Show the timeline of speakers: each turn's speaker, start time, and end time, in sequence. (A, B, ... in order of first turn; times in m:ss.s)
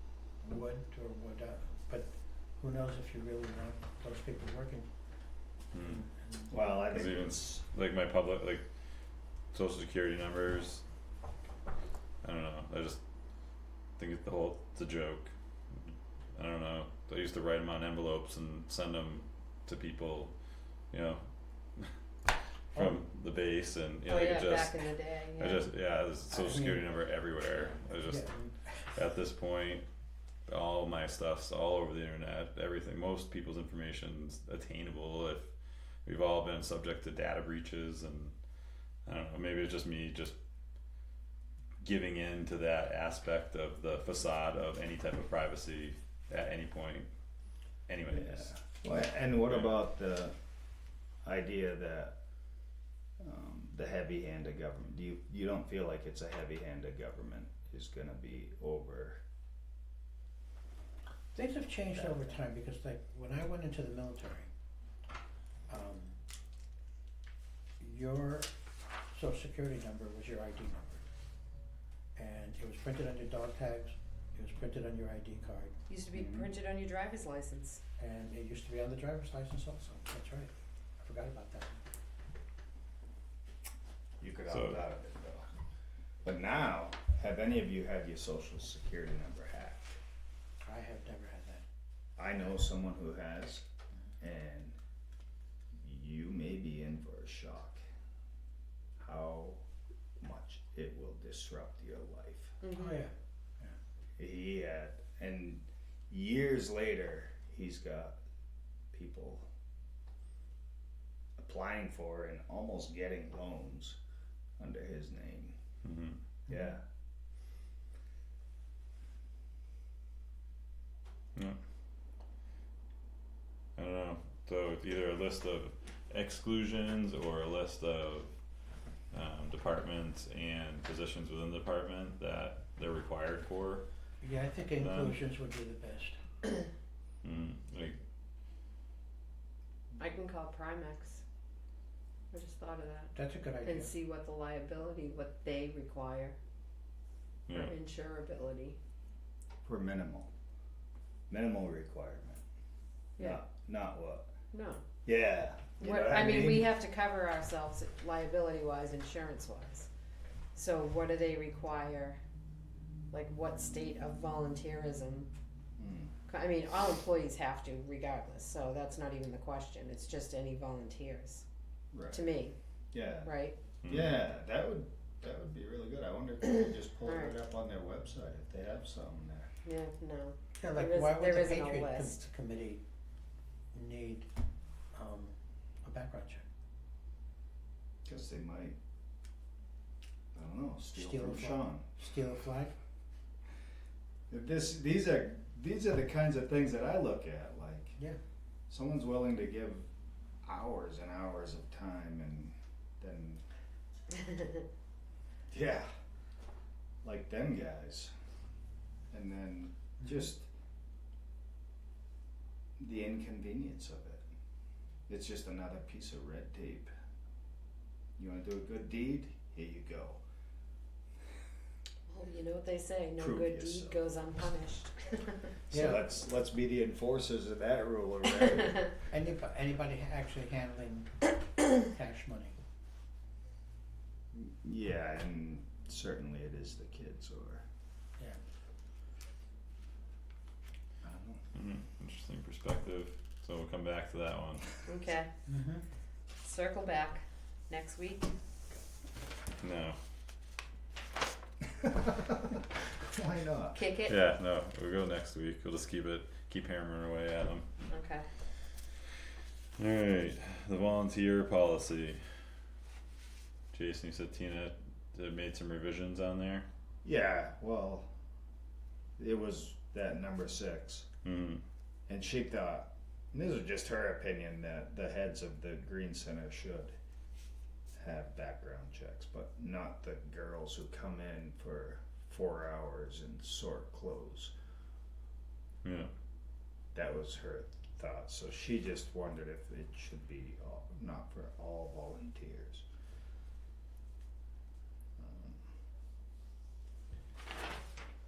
0:00.4-0:04.9 A
0:05.7-0:06.0 B
0:05.8-0:06.8 A
0:06.5-0:07.6 C
0:06.9-0:08.6 B
0:09.5-0:10.8 B
0:12.2-0:13.0 B
0:14.0-0:20.3 B
0:20.9-0:21.2 B
0:22.7-0:28.3 B
0:22.7-0:23.0 A
0:24.1-0:25.6 D
0:26.3-0:26.9 A
0:28.1-0:29.0 A
0:28.9-0:29.8 B
0:30.5-0:35.5 B
0:36.0-0:38.3 B
0:39.0-0:40.4 B
0:41.8-0:47.1 B
0:47.9-0:48.6 B
0:48.1-0:50.4 C
0:49.4-0:49.7 B
0:51.2-0:52.1 C
0:53.2-0:59.2 C
1:01.3-1:04.5 A
1:05.7-1:06.2 A
1:07.8-1:08.5 A
1:09.1-1:11.1 A
1:12.2-1:15.7 A
1:15.9-1:17.8 D
1:18.0-1:21.8 A
1:24.2-1:25.4 C
1:24.5-1:24.8 B
1:26.2-1:30.0 C
1:30.6-1:31.6 A
1:32.2-1:33.7 C
1:34.2-1:34.8 C
1:35.8-1:37.8 C
1:39.0-1:39.6 C
1:40.2-1:42.6 C
1:42.6-1:43.0 D
1:42.7-1:43.8 A
1:44.2-1:48.2 C
1:48.9-1:49.4 C
1:51.4-1:54.0 C
1:54.6-1:55.6 C
1:55.8-1:56.2 B
1:56.5-1:56.8 C
2:03.8-2:08.3 B
2:09.1-2:13.8 B
2:14.2-2:16.2 A
2:14.8-2:15.2 B
2:17.2-2:18.0 B
2:20.0-2:21.2 D
2:22.3-2:23.1 D
2:23.1-2:23.9 A
2:23.6-2:26.4 D
2:27.5-2:27.7 B
2:27.5-2:28.8 D
2:29.6-2:30.3 C
2:31.3-2:32.4 C
2:33.2-2:34.3 C
2:34.5-2:34.8 D
2:35.0-2:36.7 C
2:35.8-2:39.9 D
2:40.5-2:42.2 D
2:43.1-2:45.3 D
2:45.8-2:46.1 C
2:46.3-2:51.4 D
2:51.9-2:52.2 C
2:52.1-2:52.5 D
2:52.9-2:53.3 C
2:53.2-2:53.6 D
2:53.8-2:54.1 B
2:53.8-2:59.5 C
2:57.0-2:57.3 D
2:59.6-3:02.2 D
3:00.6-3:02.8 A
3:03.7-3:04.3 A
3:04.9-3:06.4 A
3:08.0-3:08.8 C
3:10.3-3:12.0 C
3:10.9-3:12.7 A
3:14.3-3:18.0 C
3:18.7-3:19.9 C
3:20.4-3:23.4 C
3:25.5-3:25.9 C
3:27.0-3:28.1 C
3:29.1-3:30.5 C
3:32.8-3:34.2 C
3:35.1-3:36.9 C
3:38.2-3:40.2 C
3:42.1-3:45.5 D
3:43.2-3:44.0 C
3:45.7-3:48.9 C
3:45.7-3:46.0 A
3:49.1-3:52.6 A
3:54.3-3:57.6 C
4:01.0-4:01.4 C
4:01.5-4:04.8 B
4:04.8-4:05.3 D
4:05.5-4:05.8 A
4:06.4-4:08.3 D
4:09.6-4:10.0 B
4:11.8-4:13.8 C
4:13.7-4:14.2 D
4:14.0-4:17.7 B
4:17.9-4:18.2 D
4:19.8-4:22.2 B
4:23.7-4:26.7 B
4:27.0-4:28.1 C
4:29.2-4:31.1 C
4:31.2-4:31.6 B
4:32.1-4:37.0 C
4:38.0-4:44.5 C
4:45.8-4:46.1 B
4:46.9-4:52.8 C
4:55.2-4:55.7 C